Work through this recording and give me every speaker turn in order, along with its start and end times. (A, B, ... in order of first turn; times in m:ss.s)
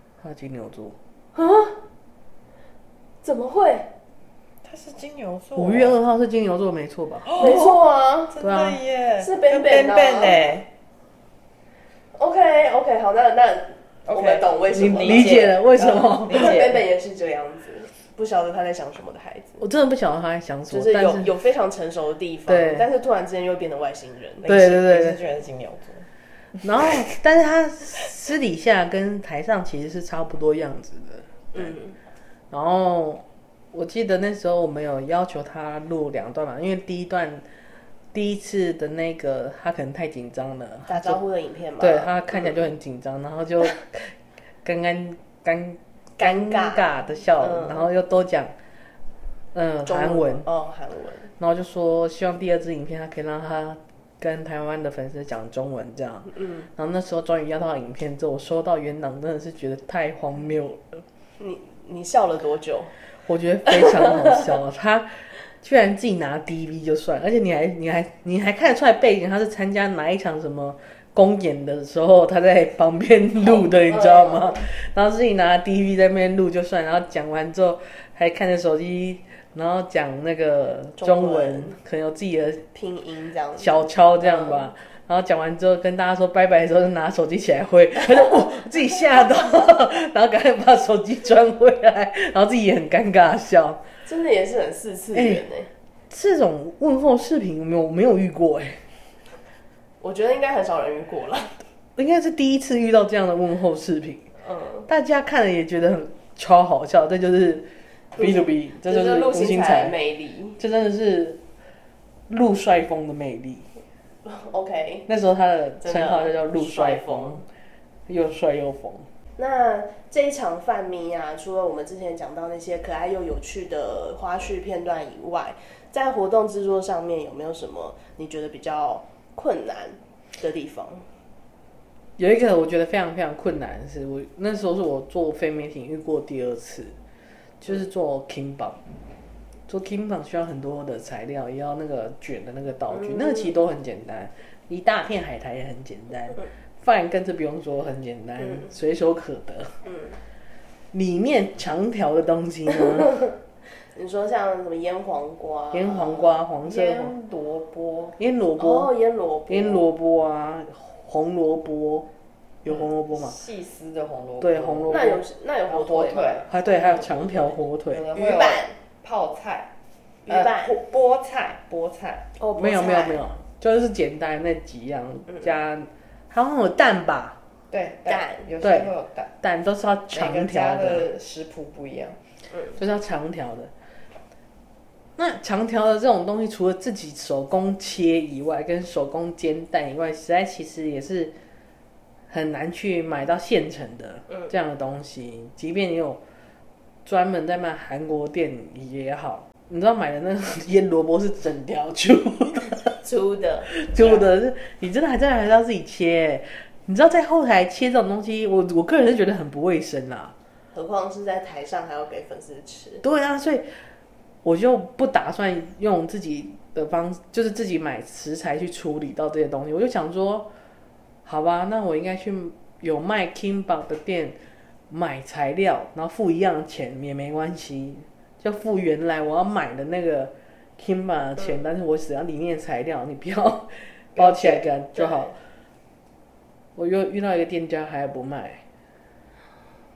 0:00.2-0:01.0 A
0:01.3-0:01.8 B
0:03.2-0:03.9 B
0:04.6-0:06.0 C
0:05.6-0:07.5 A
0:07.2-0:10.7 C
0:07.3-0:08.4 B
0:08.4-0:08.8 A
0:09.2-0:10.4 B
0:12.1-0:15.6 B
0:14.0-0:16.8 C
0:14.7-0:16.7 A
0:16.2-0:19.6 B
0:19.6-0:21.3 A
0:20.7-0:24.5 B
0:22.5-0:22.8 A
0:24.4-0:26.1 C
0:24.4-0:25.2 A
0:26.6-0:31.8 A
0:31.5-0:32.0 B
0:32.5-0:37.4 A
0:38.1-0:41.2 A
0:40.9-0:42.6 B
0:41.8-0:48.5 A
0:46.2-0:46.9 B
0:47.4-0:47.8 B
0:49.5-0:50.5 A
0:49.8-0:51.3 B
0:51.4-1:01.0 A
0:56.3-0:56.7 B
1:01.4-1:02.9 B
1:03.2-1:22.6 A
1:03.7-1:04.4 B
1:13.4-1:14.6 B
1:21.0-1:21.8 B
1:22.7-1:24.7 B
1:23.6-1:33.8 A
1:34.0-1:35.7 B
1:35.1-1:35.4 A
1:36.1-1:38.8 A
1:40.0-1:41.6 B
1:42.0-1:44.3 A
1:44.4-1:44.9 B
1:44.9-1:50.0 A
1:48.2-1:50.6 B
1:50.6-1:51.4 A
1:52.3-1:53.7 A
1:54.2-1:55.1 B
1:55.1-1:57.4 A
1:55.8-1:57.4 B
1:58.1-1:59.0 A
1:59.4-2:11.0 B
2:12.2-2:17.0 A
2:17.6-2:18.8 A
2:19.7-2:29.8 A
2:22.9-2:23.5 B
2:28.4-2:28.7 B
2:29.8-2:30.2 B
2:30.9-2:33.2 A
2:33.9-2:36.4 B
2:35.7-2:37.1 A
2:36.6-2:38.2 C
2:38.2-2:38.9 A
2:38.6-2:39.8 B
2:39.5-2:42.1 A
2:42.6-2:43.4 A
2:43.1-2:45.0 C
2:44.4-2:45.2 A
2:44.9-2:46.6 B
2:45.7-2:49.7 C
2:46.5-2:48.0 A
2:48.1-2:48.7 B
2:50.2-2:50.7 B
2:50.3-2:52.3 C
2:52.4-2:53.2 B
2:52.6-2:57.4 A
2:57.7-2:59.4 C
2:58.1-2:58.4 B
2:58.6-3:01.1 A
3:00.1-3:02.2 C
3:02.5-3:02.8 B
3:02.7-3:03.7 A
3:05.2-3:11.3 A
3:12.3-3:16.2 A
3:17.0-3:22.9 A
3:23.0-3:24.2 B
3:23.7-3:30.3 A
3:30.7-3:33.0 B
3:33.0-3:33.7 A
3:34.4-3:40.5 A
3:41.2-3:44.4 A
3:44.9-3:55.3 A
3:51.4-3:51.6 B
3:54.2-3:55.3 B
3:56.8-3:58.6 A